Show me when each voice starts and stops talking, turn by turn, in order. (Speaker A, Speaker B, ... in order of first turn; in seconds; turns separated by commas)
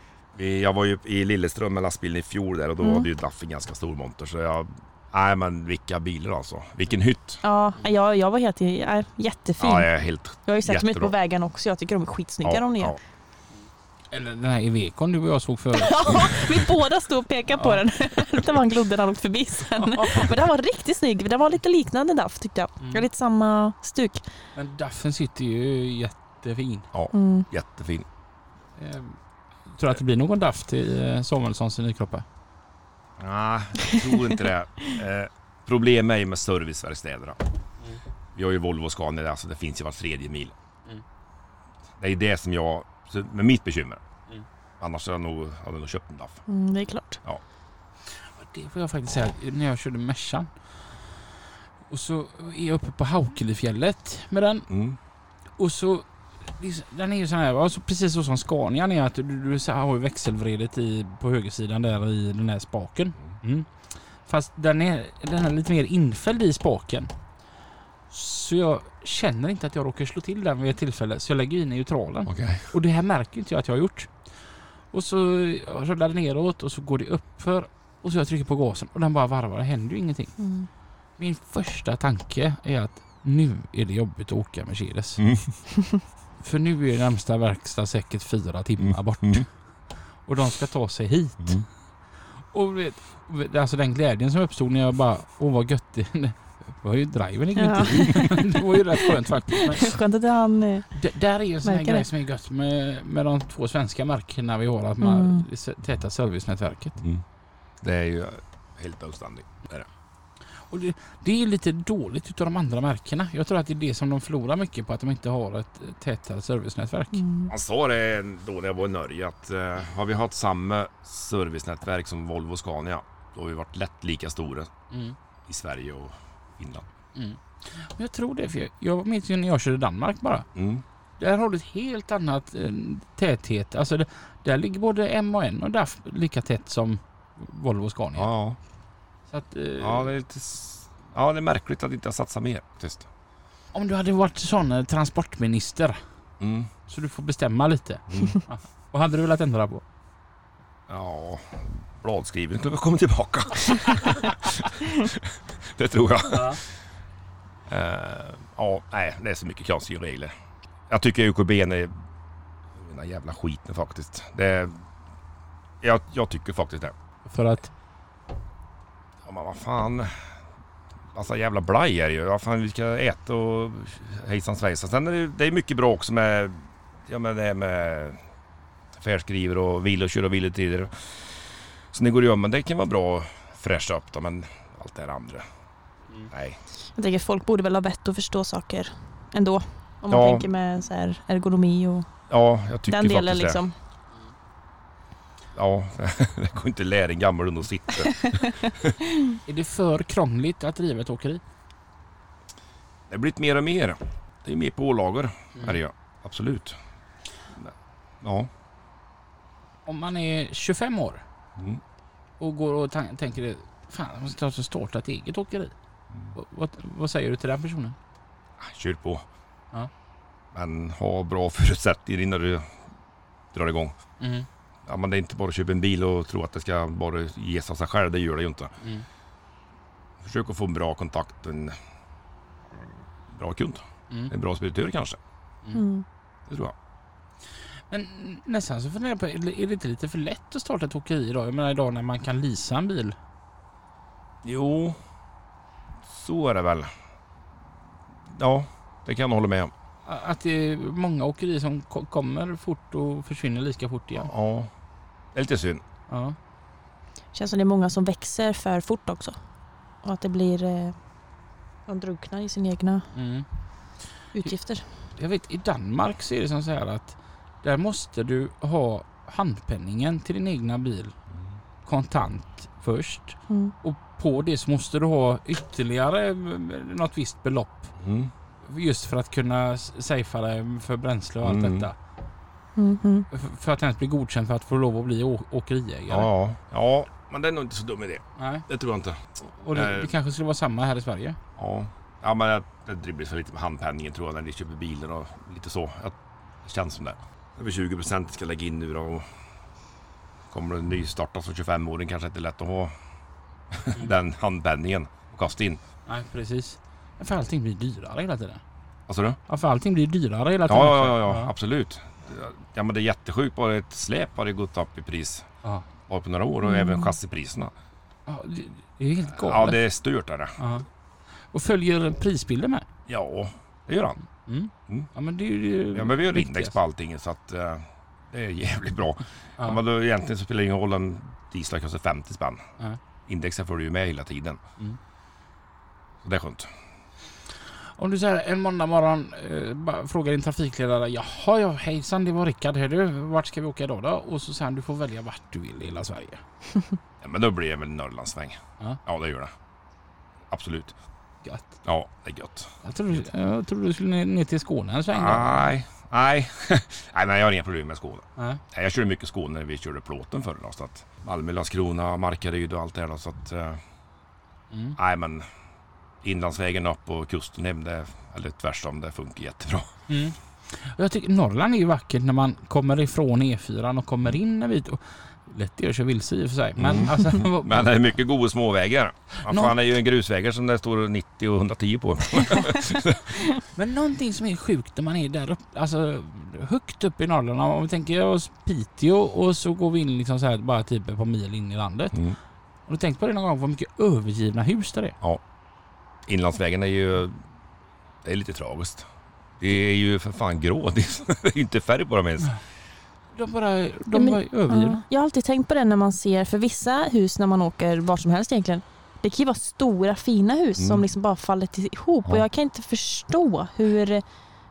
Speaker A: 0.3-7.4, Speaker B: 2.8-3.1, Speaker B: 7.4-9.9, Speaker A: 9.6-11.1, Speaker B: 10.4-12.9, Speaker A: 12.4-13.0, Speaker C: 14.1-16.4, Speaker B: 15.7-24.2, Speaker C: 17.6-17.8, Speaker C: 19.7-20.3, Speaker C: 24.5-26.9, Speaker A: 26.9-28.1, Speaker B: 27.1-27.5, Speaker C: 28.8-29.2, Speaker C: 29.7-32.2, Speaker A: 33.2-37.4, Speaker A: 38.3-40.5, Speaker A: 42.0-44.0, Speaker A: 44.8-46.4, Speaker B: 46.5-47.2, Speaker C: 48.1-50.5, Speaker C: 51.9-54.7, Speaker A: 54.7-55.0, Speaker C: 55.6-63.7, Speaker C: 64.2-67.1, Speaker C: 68.1-74.1, Speaker A: 72.3-72.7, Speaker C: 74.9-80.4, Speaker B: 80.4-80.7, Speaker C: 81.2-85.2, Speaker A: 85.2-85.5, Speaker C: 86.4-89.5, Speaker A: 88.8-89.4, Speaker C: 90.2-91.7, Speaker C: 92.5-100.0, Speaker B: 97.5-100.9, Speaker C: 100.9-107.0, Speaker B: 101.6-102.0, Speaker B: 105.0-105.4, Speaker A: 107.8-109.9, Speaker C: 110.7-117.2, Speaker B: 117.2-117.5, Speaker A: 117.5-124.7, Speaker C: 124.9-125.2, Speaker A: 125.5-126.9, Speaker C: 127.1-130.4, Speaker A: 130.5-130.8, Speaker C: 131.2-138.3, Speaker A: 138.2-138.6, Speaker C: 139.3-140.1, Speaker A: 139.8-143.1, Speaker C: 143.7-146.0, Speaker A: 146.4-146.7, Speaker C: 146.9-149.8, Speaker A: 148.1-148.3, Speaker A: 150.9-156.6, Speaker C: 156.3-156.6, Speaker A: 157.7-160.3, Speaker A: 160.9-161.9, Speaker A: 162.8-164.8, Speaker A: 165.8-166.9, Speaker C: 167.3-167.7, Speaker A: 169.2-170.3, Speaker A: 171.1-178.2, Speaker A: 178.9-181.1, Speaker A: 181.9-185.4, Speaker A: 186.3-186.6, Speaker B: 186.9-192.1, Speaker A: 190.1-190.5, Speaker A: 192.3-193.6, Speaker B: 192.9-193.7, Speaker A: 195.5-198.9, Speaker C: 199.4-201.4, Speaker A: 203.1-206.8, Speaker A: 207.5-208.5, Speaker C: 209.8-211.2, Speaker C: 212.4-215.7, Speaker C: 216.3-217.9, Speaker A: 218.6-219.2, Speaker A: 220.5-222.7, Speaker A: 223.5-223.9, Speaker C: 224.2-224.5, Speaker A: 224.8-228.7, Speaker A: 230.2-231.8, Speaker A: 233.3-235.2, Speaker B: 235.7-236.0, Speaker A: 236.5-236.7, Speaker C: 237.9-243.2, Speaker A: 244.4-245.0, Speaker A: 246.1-246.9, Speaker A: 248.3-249.7, Speaker C: 250.1-254.3, Speaker A: 254.1-254.7, Speaker A: 255.3-255.8, Speaker C: 256.1-256.4, Speaker B: 257.3-259.4, Speaker B: 260.0-260.9, Speaker B: 261.9-263.1, Speaker C: 263.1-263.5, Speaker B: 264.3-264.8, Speaker C: 265.2-271.1, Speaker C: 271.8-277.9, Speaker A: 278.0-278.3, Speaker C: 278.6-281.9, Speaker A: 281.4-281.9, Speaker B: 282.8-283.3, Speaker C: 283.3-286.3, Speaker A: 286.1-290.1, Speaker C: 288.4-288.6, Speaker C: 289.6-291.4, Speaker A: 291.6-299.3, Speaker A: 300.5-302.9, Speaker A: 303.7-305.8, Speaker C: 306.1-308.6, Speaker A: 309.1-309.4, Speaker C: 309.5-311.5, Speaker A: 310.7-315.4, Speaker A: 316.1-317.7, Speaker B: 316.6-317.1, Speaker C: 318.3-319.8, Speaker A: 319.3-320.6, Speaker C: 320.6-320.9, Speaker C: 321.5-322.9, Speaker A: 323.1-324.2, Speaker C: 324.4-326.8, Speaker A: 325.9-332.6, Speaker A: 333.3-334.6, Speaker A: 336.2-336.7, Speaker C: 338.0-346.4, Speaker A: 347.2-349.5, Speaker A: 350.5-350.9, Speaker C: 351.4-351.8, Speaker A: 351.8-353.2, Speaker C: 352.8-355.6, Speaker A: 355.1-363.8, Speaker C: 364.7-365.0, Speaker A: 365.0-365.4, Speaker A: 366.2-369.9, Speaker C: 370.1-377.9, Speaker A: 376.8-383.3, Speaker C: 379.4-379.7, Speaker C: 383.7-392.2, Speaker C: 392.9-395.1, Speaker A: 396.3-397.4, Speaker A: 398.2-399.1, Speaker A: 399.6-402.5, Speaker C: 403.3-405.0, Speaker B: 404.1-414.2, Speaker A: 410.8-411.0